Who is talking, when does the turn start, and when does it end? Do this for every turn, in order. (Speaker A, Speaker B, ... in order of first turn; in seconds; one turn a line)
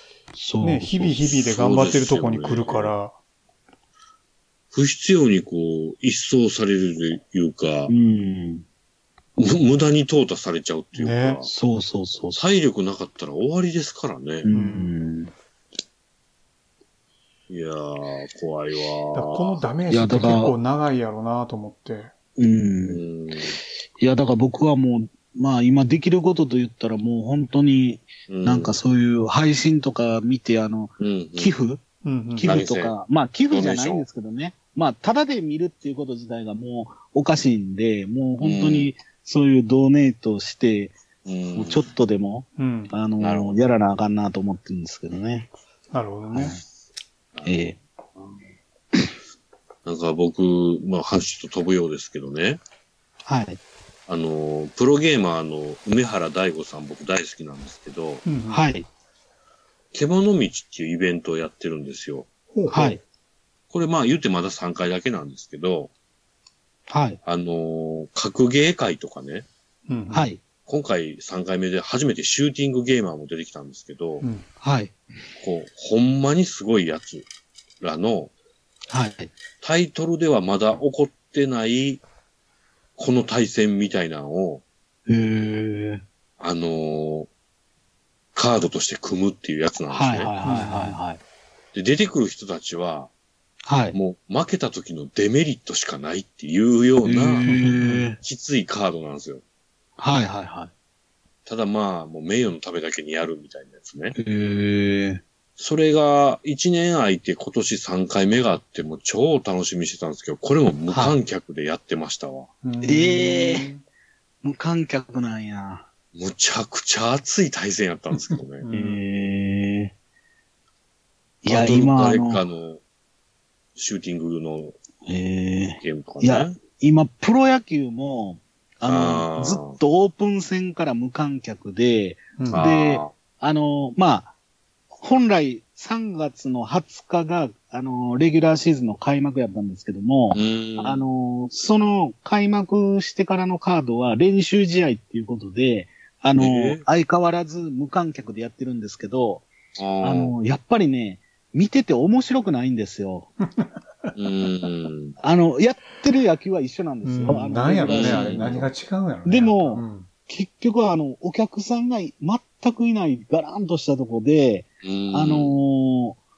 Speaker A: 0.3-1.1
Speaker B: 0.6-3.1
Speaker C: 1.2-2.9
Speaker C: 4.7-7.9
Speaker A: 7.9-8.6
Speaker C: 9.4-11.5
Speaker B: 10.9-11.4
Speaker A: 11.4-12.4
Speaker C: 12.3-14.5
Speaker A: 14.4-15.3
Speaker B: 14.5-14.9
Speaker C: 17.5-19.6
Speaker B: 19.1-22.1
Speaker A: 19.9-20.5
Speaker A: 22.4-23.0
Speaker C: 22.9-23.6
Speaker A: 24.0-31.8
Speaker C: 28.3-28.8
Speaker C: 31.0-31.5
Speaker B: 32.0-32.6
Speaker A: 32.3-41.0
Speaker C: 32.4-32.9
Speaker C: 33.5-34.1
Speaker C: 38.4-38.9
Speaker C: 41.2-41.9
Speaker A: 41.5-45.5
Speaker B: 42.6-42.9
Speaker C: 43.2-43.6
Speaker B: 45.9-46.6
Speaker A: 46.3-46.6
Speaker C: 47.4-47.8
Speaker A: 47.4-47.8
Speaker C: 49.9-52.6
Speaker A: 53.2-53.6
Speaker C: 54.1-58.2
Speaker B: 58.2-58.7
Speaker A: 58.5-58.9
Speaker C: 59.9-62.3
Speaker B: 62.5-63.0
Speaker A: 62.7-63.0
Speaker C: 63.7-65.9
Speaker A: 66.9-67.2
Speaker C: 67.2-69.5
Speaker B: 69.9-70.3
Speaker A: 70.1-70.4
Speaker C: 70.7-74.2
Speaker A: 74.6-74.9
Speaker C: 75.4-77.2
Speaker C: 77.8-78.3
Speaker A: 78.9-79.3
Speaker C: 79.6-82.0
Speaker C: 83.0-84.6
Speaker A: 85.1-86.0
Speaker C: 86.4-87.3
Speaker C: 88.3-90.3
Speaker A: 89.9-91.2
Speaker B: 90.4-91.0
Speaker C: 91.7-93.1
Speaker A: 93.7-94.0
Speaker C: 93.9-97.5
Speaker A: 97.0-98.2
Speaker B: 97.4-98.1
Speaker C: 98.2-99.4
Speaker A: 100.0-100.7
Speaker C: 101.5-104.2
Speaker A: 104.1-105.2
Speaker C: 105.6-112.5
Speaker A: 110.9-111.2
Speaker B: 112.6-113.8
Speaker A: 112.8-113.7
Speaker A: 114.4-115.8
Speaker C: 116.1-118.7
Speaker B: 118.6-119.0
Speaker A: 118.7-119.9
Speaker A: 121.4-122.4
Speaker C: 121.5-122.8
Speaker C: 123.8-124.8
Speaker A: 125.1-134.3
Speaker C: 125.8-126.6
Speaker C: 128.8-129.8
Speaker B: 132.4-132.7
Speaker C: 132.5-133.1
Speaker A: 135.0-149.5
Speaker C: 140.3-141.0
Speaker C: 146.4-146.8
Speaker C: 149.8-150.3
Speaker A: 150.0-153.3
Speaker B: 153.6-154.1
Speaker C: 154.1-155.2
Speaker A: 155.2-158.6
Speaker B: 157.0-160.1
Speaker C: 157.9-158.7
Speaker A: 159.2-166.2
Speaker C: 164.8-165.6